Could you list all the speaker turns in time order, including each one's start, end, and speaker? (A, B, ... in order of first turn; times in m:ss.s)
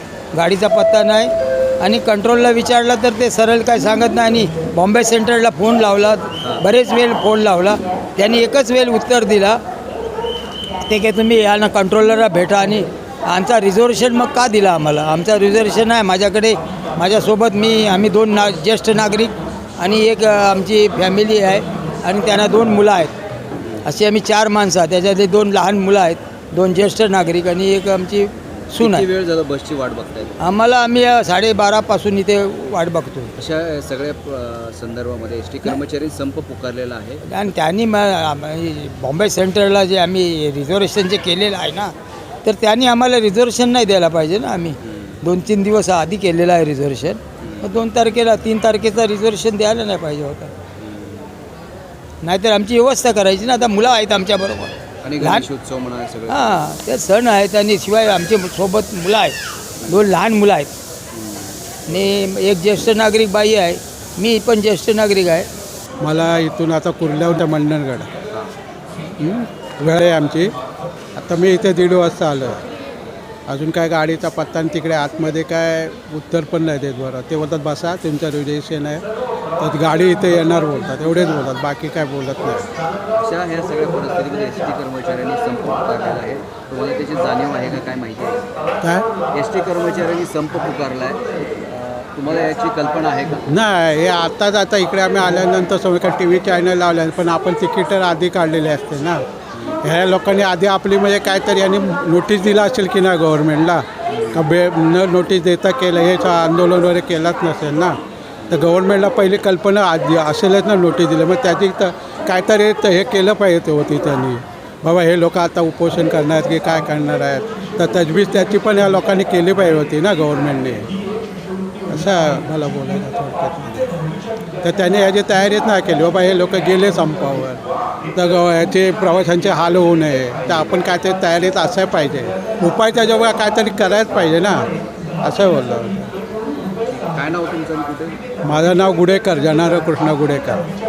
0:00.3-0:09.6 A
0:10.8-0:23.2 A
0:23.8-0:29.1 A
0:28.7-0:30.4 B
0:30.4-0:33.3 A
0:33.4-0:37.2 B
0:37.3-0:50.5 A
0:44.9-0:45.1 B
0:47.4-0:47.8 B
0:50.8-0:51.4 B
0:52.2-0:55.5 A
0:55.0-0:56.6 B
0:56.3-1:00.7 A
1:01.1-1:01.6 B
1:01.9-1:05.5 A
1:06.0-1:08.1 C
1:09.2-1:10.5 C
1:11.2-1:12.6 C
1:13.5-1:19.0 C
1:19.6-1:22.7 C
1:23.2-1:28.4 B
1:28.8-1:29.1 C
1:29.3-1:33.5 B
1:33.5-1:39.2 C
1:39.8-1:48.0 C
1:44.1-1:44.5 B
1:48.5-2:00.9 C
2:01.9-2:03.9 C
2:04.6-2:07.6 C
2:08.1-2:14.6 C
2:10.5-2:10.8 B
2:15.2-2:16.1 C
2:16.9-2:18.2 B
2:18.4-2:20.6 C